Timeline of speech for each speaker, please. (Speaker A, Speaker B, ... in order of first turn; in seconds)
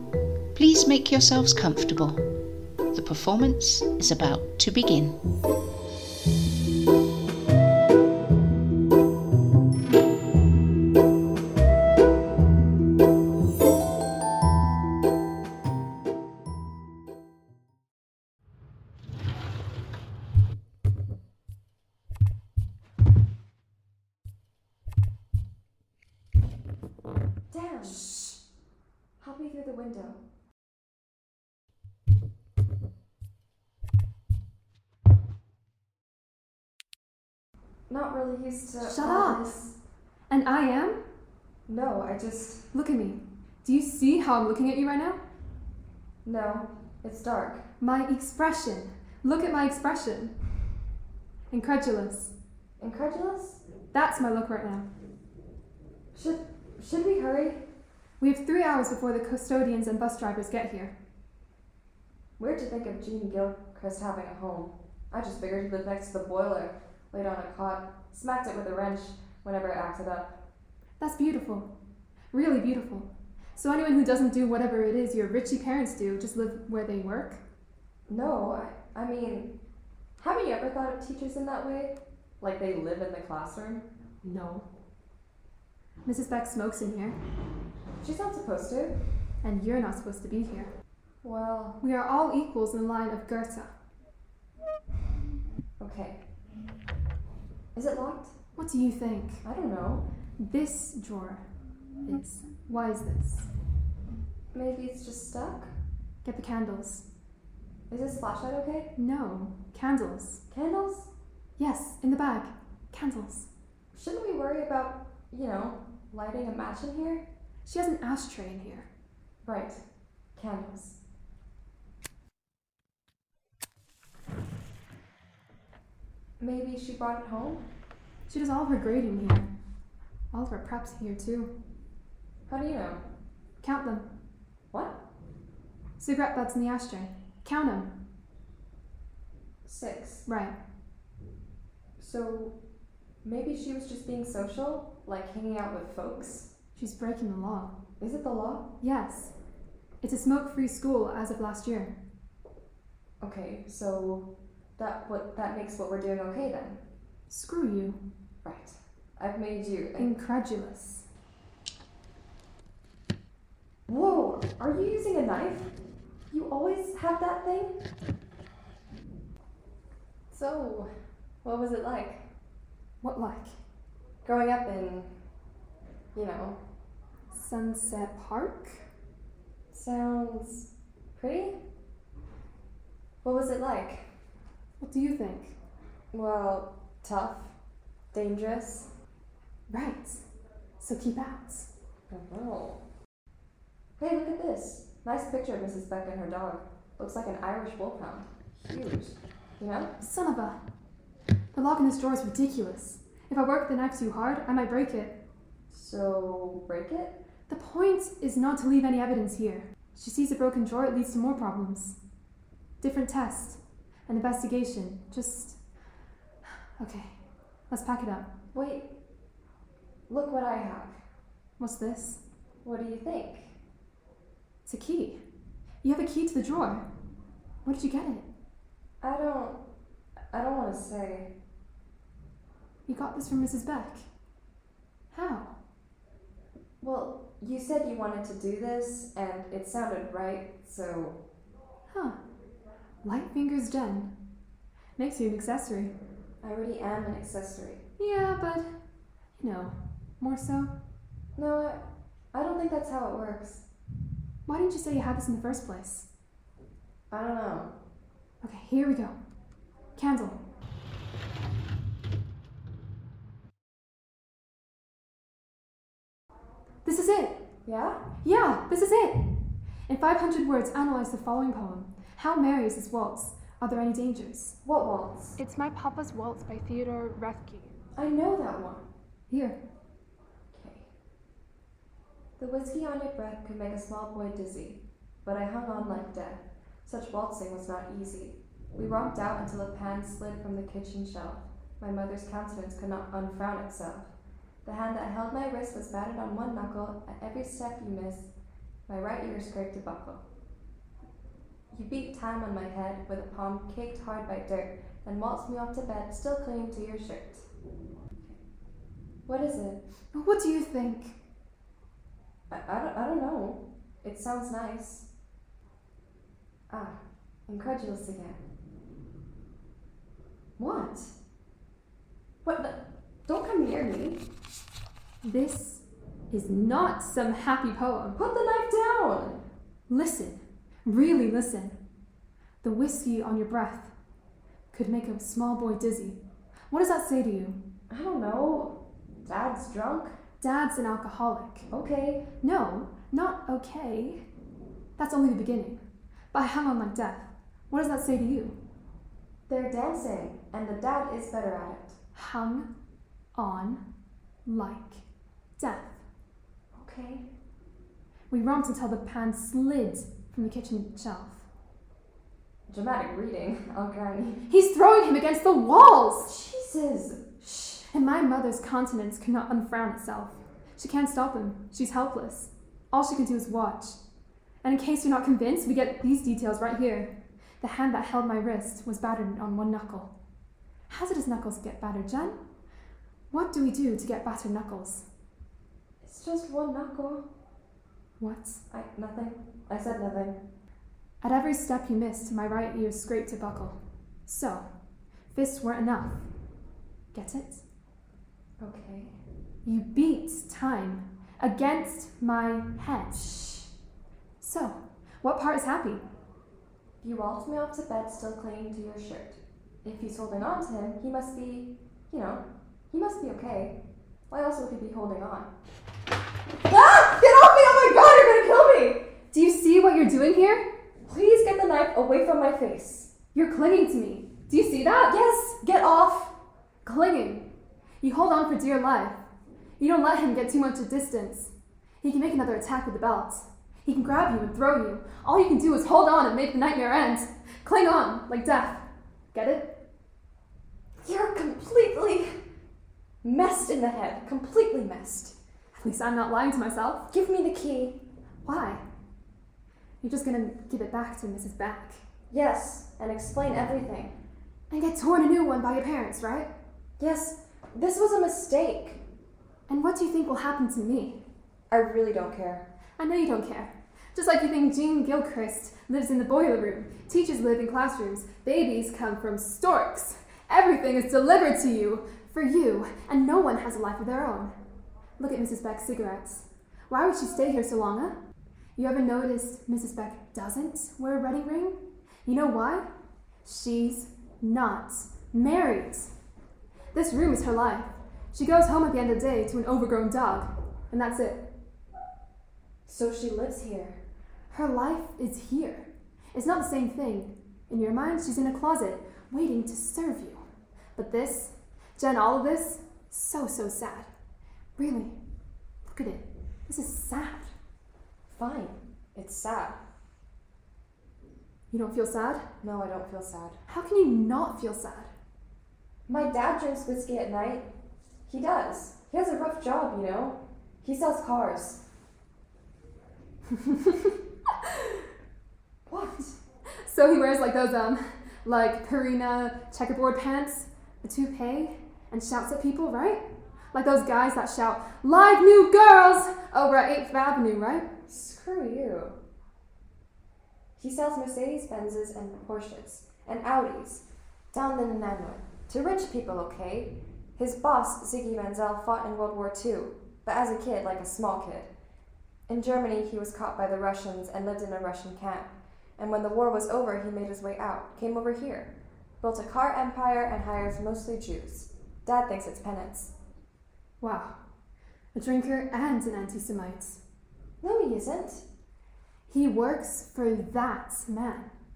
Speaker A: 0.5-5.2
Speaker B: 27.5-28.1, 29.2-30.2, 37.9-39.8, 41.7-42.7, 46.2-47.6, 52.8-53.6, 56.1-57.6, 62.4-70.4, 78.1-79.5, 80.2-83.8, 88.0-89.0, 91.2-91.8, 95.8-96.2, 97.7-98.3, 99.4-100.0, 104.5-105.7, 107.9-108.9, 110.5-111.1, 113.9-117.2, 119.4-119.8, 120.4-121.0, 126.4-127.6, 132.5-133.0, 134.7-135.0, 139.6-140.2, 142.0-142.5, 143.2-146.5, 148.0-148.7, 153.2-156.8, 158.4-160.1, 163.9-165.7, 166.3-167.8, 170.3-170.9, 171.4-172.2, 174.2-175.1, 176.1-176.6, 179.7-181.6, 183.2-184.0, 186.1-187.5, 188.1-188.9, 192.1-192.8, 194.0-199.9, 205.7-207.2, 218.5-218.9, 220.1-221.0, 222.6-223.5, 229.0-229.6, 230.3-231.3, 236.8-241.2, 246.4-247.8, 251.4-253.6, 257.1-257.7, 267.6-268.0, 274.6-275.4, 277.9-278.9, 280.5-280.9, 282.4-294.1, 294.6-298.3, 298.9-300.2, 301.7-307.5, 309.3-309.8, 312.5-315.1, 316.7-317.0, 317.5-318.4, 320.6-321.1, 322.4-324.2, 328.1-329.4, 337.9-340.1, 341.7-342.3, 349.5-352.0, 356.7-357.3, 362.7-364.4, 366.2-367.9, 386.0-387.2, 388.7-390.4, 398.6-399.1, 407.0-413.8, 414.3-415.5, 416.6-419.1, 421.0-423.1, 425.0-426.3, 441.0-442.3, 443.2-445.3, 447.1-448.0, 452.3-454.1, 457.0-459.0, 461.7-462.6, 492.9-494.0, 508.3-509.8, 512.6-513.6, 516.1-517.7, 518.3-521.8, 525.9-526.4, 538.1-539.2, 540.8-551.7, 552.5-563.1, 567.6-568.4
Speaker C: 27.8-28.4, 38.8-39.5, 40.3-41.0, 42.7-45.2, 47.8-50.3, 51.5-52.3, 53.9-54.9, 58.2-60.9, 71.0-71.7, 72.3-77.4, 84.2-84.7, 86.0-87.2, 89.4-90.7, 91.8-93.7, 98.5-99.4, 100.4-101.4, 102.0-103.5, 106.2-107.0, 109.0-110.4, 111.6-113.5, 117.6-118.9, 128.3-129.5, 130.3-131.5, 133.6-134.1, 136.0-137.9, 140.2-140.5, 146.7-147.7, 148.8-149.3, 150.0-151.9, 157.3-158.0, 160.0-161.1, 173.0-173.6, 177.3-178.8, 184.8-185.6, 189.7-190.2, 190.8-191.7, 200.0-200.6, 201.5-205.2, 207.5-212.0, 212.8-215.6, 216.4-217.1, 217.7-218.3, 221.6-222.2, 224.6-225.2, 225.8-226.8, 227.6-228.2, 232.9-234.1, 235.1-235.5, 241.9-242.2, 243.0-244.1, 245.0-245.9, 248.0-248.7, 249.4-250.7, 254.5-256.1, 258.4-259.1, 259.9-260.4, 266.8-267.4, 268.2-269.4, 269.9-274.6, 275.4-277.7, 279.3-279.6, 310.1-311.1, 325.2-328.2, 329.9-331.8, 332.6-333.9, 334.7-336.2, 336.7-337.6, 340.4-341.7, 342.4-344.2, 345.0-345.8, 346.3-348.6, 352.1-352.7, 353.3-353.8, 354.4-355.0, 355.6-356.0, 358.3-361.5, 364.5-366.3, 367.9-374.0, 374.6-380.1, 380.9-382.4, 383.3-385.0, 388.2-388.6, 391.2-394.6, 395.3-396.2, 397.1-397.6, 399.6-403.7, 404.4-406.0, 419.3-420.6, 423.3-425.2, 426.8-427.5, 428.0-429.2, 429.8-439.8, 445.7-447.1, 448.4-448.8, 450.0-452.0, 454.7-456.5, 459.7-461.2, 463.0-474.5, 475.2-478.2, 478.8-482.9, 483.4-486.1, 486.9-491.4, 494.5-500.4, 500.9-504.1, 504.8-505.2, 505.9-507.5, 511.7-512.4, 513.6-515.1, 523.5-525.0, 526.8-537.9, 564.0-564.4, 565.1-567.0, 569.3-571.5